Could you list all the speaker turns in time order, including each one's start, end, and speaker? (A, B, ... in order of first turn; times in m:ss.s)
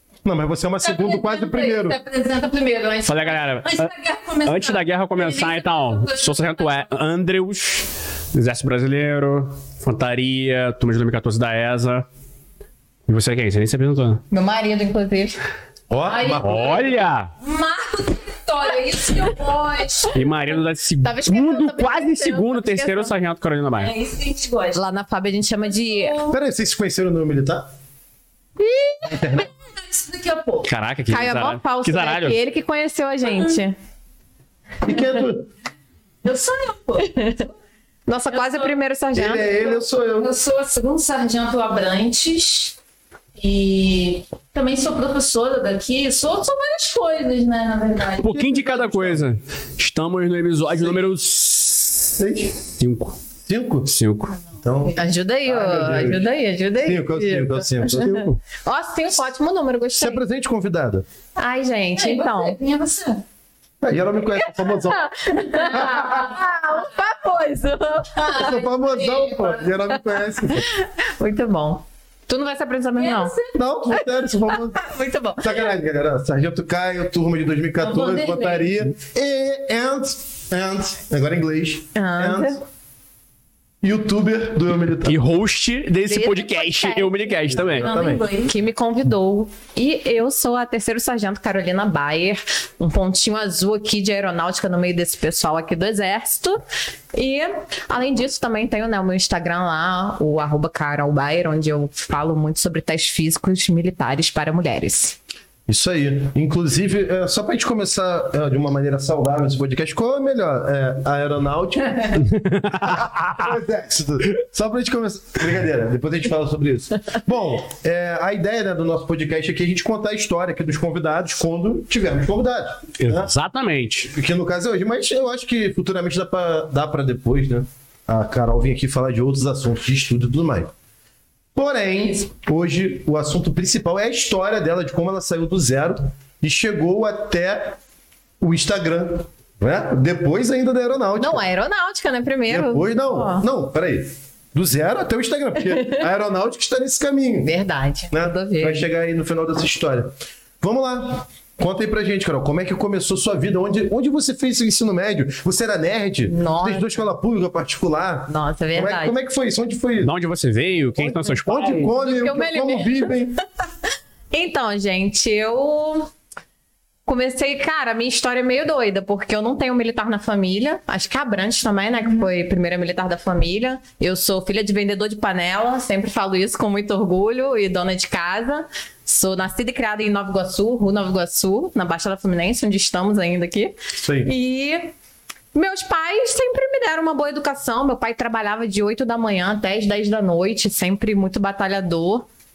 0:00.2-0:02.0 A
0:00.8-0:07.0 B
0:03.0-0:03.9 C
0:04.4-0:12.0 C
0:13.1-0:14.2 C
0:14.3-0:15.4 D
0:15.9-0:16.7 A
0:16.0-0:20.2 B
0:16.4-0:17.3 C
0:20.1-0:23.9 C
0:21.0-0:23.1 D
0:23.8-0:24.8 B
0:24.7-0:26.2 D
0:25.7-0:26.4 B
0:26.3-0:27.7 A
0:28.6-0:29.0 D
0:29.0-0:29.5 A
0:29.2-0:30.7 B
0:30.7-0:32.4 C
0:31.1-0:33.7 D
0:34.8-0:35.5 A
0:36.2-0:37.5 B
0:37.0-0:37.4 D
0:38.1-0:39.6 D
0:38.3-0:38.8 B
0:39.1-0:40.3 A
0:39.6-0:42.8 B
0:43.4-0:48.4 B
0:48.2-0:52.2 C
0:48.2-0:49.2 A
0:52.2-0:52.6 A
0:52.8-0:53.2 C
0:53.4-0:53.9 A
0:53.9-0:54.4 C
0:54.6-0:56.3 A
0:54.9-1:00.2 D
0:56.8-0:58.4 A
0:58.0-0:58.3 C
1:00.0-1:01.0 A
1:01.4-1:02.6 D
1:02.0-1:03.2 B
1:03.8-1:05.2 A
1:04.6-1:08.4 D
1:05.5-1:06.2 B
1:05.7-1:06.3 A
1:08.2-1:09.8 B
1:08.3-1:10.7 A
1:10.3-1:13.4 D
1:13.0-1:13.6 B
1:13.5-1:14.8 A
1:14.5-1:15.7 D
1:15.4-1:22.6 A
1:17.8-1:18.7 B
1:21.9-1:22.6 D
1:23.8-1:25.2 A
1:25.0-1:27.9 C
1:26.1-1:27.8 D
1:27.6-1:28.2 A
1:27.8-1:28.5 B
1:28.4-1:36.6 D
1:37.1-1:45.2 D
1:45.7-2:03.3 A
1:52.3-1:53.4 C
2:03.0-2:04.1 C
2:04.1-2:10.7 A
2:11.6-2:17.8 A
2:18.4-2:21.4 A
2:21.2-2:23.4 D
2:22.5-2:27.5 A
2:25.7-2:26.0 D
2:27.4-2:28.9 D
2:28.1-2:40.1 A
2:36.3-2:37.0 D
2:38.3-2:39.1 D
2:40.0-2:41.9 C
2:41.0-2:43.4 A
2:41.9-2:43.1 D
2:44.3-2:46.1 D
2:47.1-3:04.9 D
3:03.9-3:04.3 A
3:05.5-3:12.3 D